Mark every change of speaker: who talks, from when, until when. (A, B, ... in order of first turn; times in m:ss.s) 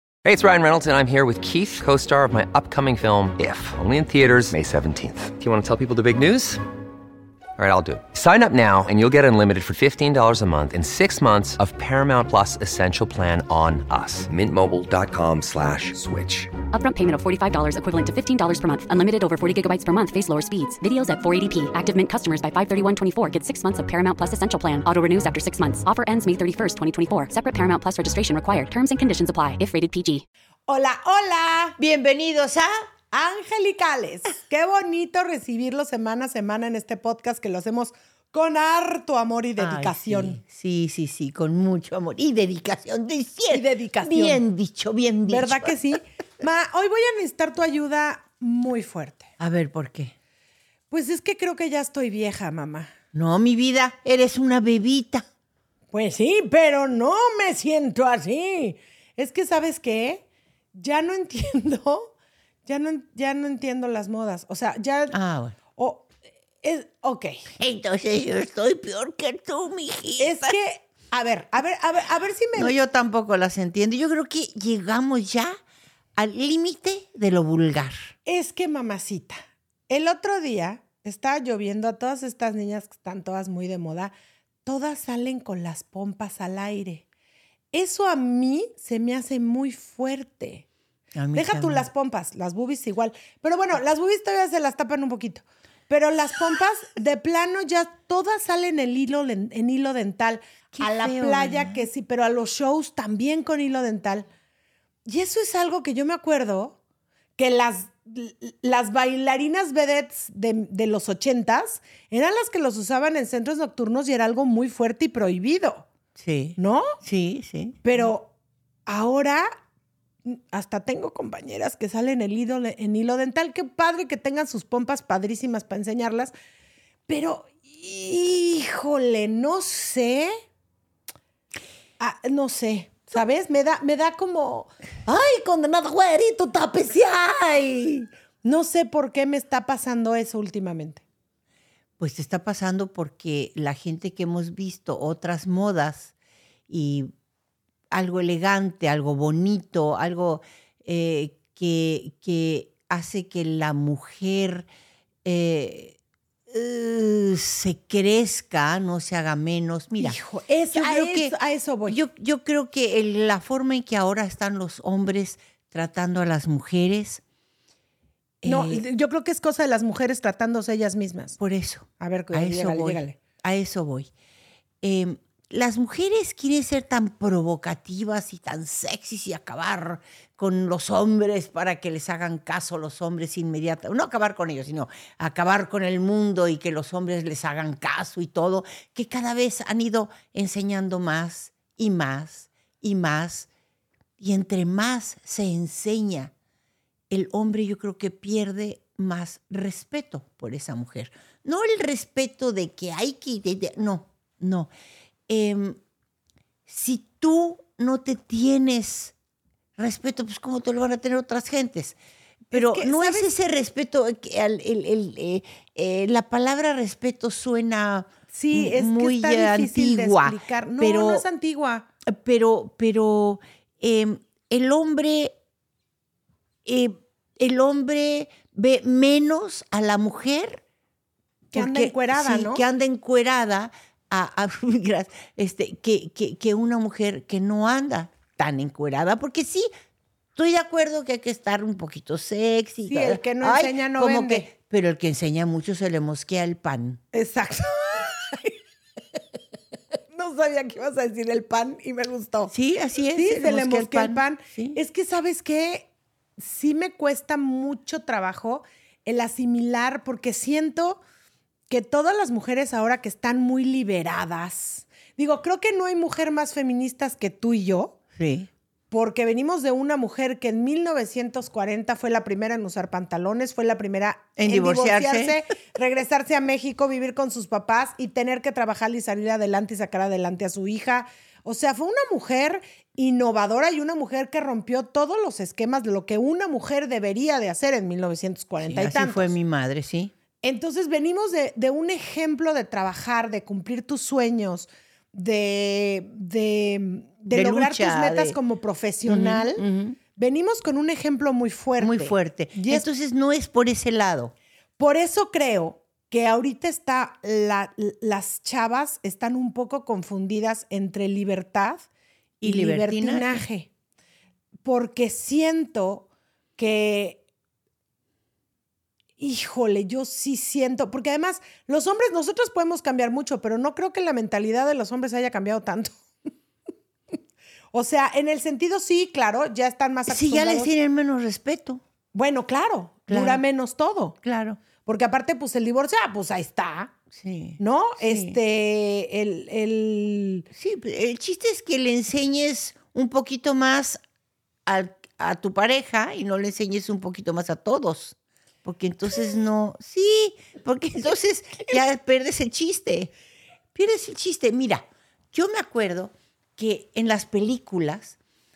0:00.2-0:06.6 A
0:07.6-0:16.5 A
0:16.7-0:30.2 B
0:30.7-0:31.8 C
0:31.8-0:32.7 D
0:33.1-0:40.4 C
0:39.6-0:45.8 D
0:43.5-0:44.4 C
0:45.3-0:49.3 C
0:49.4-0:50.1 D
0:50.9-0:52.9 C
0:53.1-0:55.2 D
0:55.9-1:02.1 C
1:02.7-1:05.2 C
1:05.1-1:05.6 D
1:05.8-1:07.4 C
1:07.6-1:10.6 D
1:10.2-1:12.8 C
1:12.6-1:15.6 D
1:16.2-1:18.1 D
1:18.3-1:24.1 C
1:24.7-1:27.1 C
1:27.7-1:30.6 C
1:31.2-1:31.9 D
1:31.4-1:44.3 C
1:40.7-1:41.9 D
1:45.1-1:46.8 C
1:47.4-1:55.9 C
1:56.2-1:57.8 D
1:56.6-1:56.9 C
1:57.8-1:58.3 C
1:58.9-1:59.5 C
2:00.2-2:06.3 C
2:07.1-2:10.3 C
2:12.0-2:14.7 C
2:15.1-2:18.1 D
2:16.3-2:16.6 C
2:18.4-2:21.0 C
2:22.0-2:26.1 D
2:26.7-2:27.1 D
2:27.9-2:34.7 D
2:35.2-2:36.0 D
2:36.5-2:40.2 D
2:40.0-2:42.0 C
2:40.7-2:41.3 D
2:41.9-2:47.2 D
2:48.4-2:48.8 D
2:48.4-2:51.4 C
2:51.4-2:54.1 D
2:52.0-2:53.2 C
2:54.8-3:13.5 D
3:14.2-3:16.3 D
3:17.1-3:24.7 D
3:25.3-3:25.8 D
3:26.7-3:29.1 D
3:29.8-3:32.0 D
3:32.5-3:41.2 D
3:32.5-3:33.3 C
3:38.3-3:41.9 C
3:42.1-3:45.4 D
3:46.6-3:50.6 D
3:51.5-3:59.7 D
3:51.5-3:52.6 C
4:00.4-4:07.0 D
4:02.9-4:04.5 C
4:07.1-4:08.6 C
4:10.1-4:12.5 C
4:12.5-4:14.8 D
4:13.2-4:21.0 C
4:21.7-4:28.0 C
4:28.2-4:28.5 D
4:28.9-4:49.3 C
4:34.4-4:35.4 D
4:48.6-4:50.1 D
4:50.4-4:59.6 C
4:57.3-4:58.4 D
4:59.1-5:00.0 D
5:00.2-5:02.8 C
5:01.8-5:04.3 D
5:04.8-5:11.9 C
5:12.4-5:13.4 D
5:12.4-5:13.7 C
5:14.6-5:17.2 C
5:19.2-5:26.0 C
5:27.7-5:30.7 C
5:30.1-5:31.8 D
5:32.1-5:34.2 C
5:33.1-5:33.4 D
5:34.2-5:34.6 D
5:34.8-5:36.9 C
5:37.1-5:38.4 D
5:37.6-5:40.5 C
5:40.5-5:44.0 D
5:44.7-5:53.1 D
5:53.7-5:58.2 D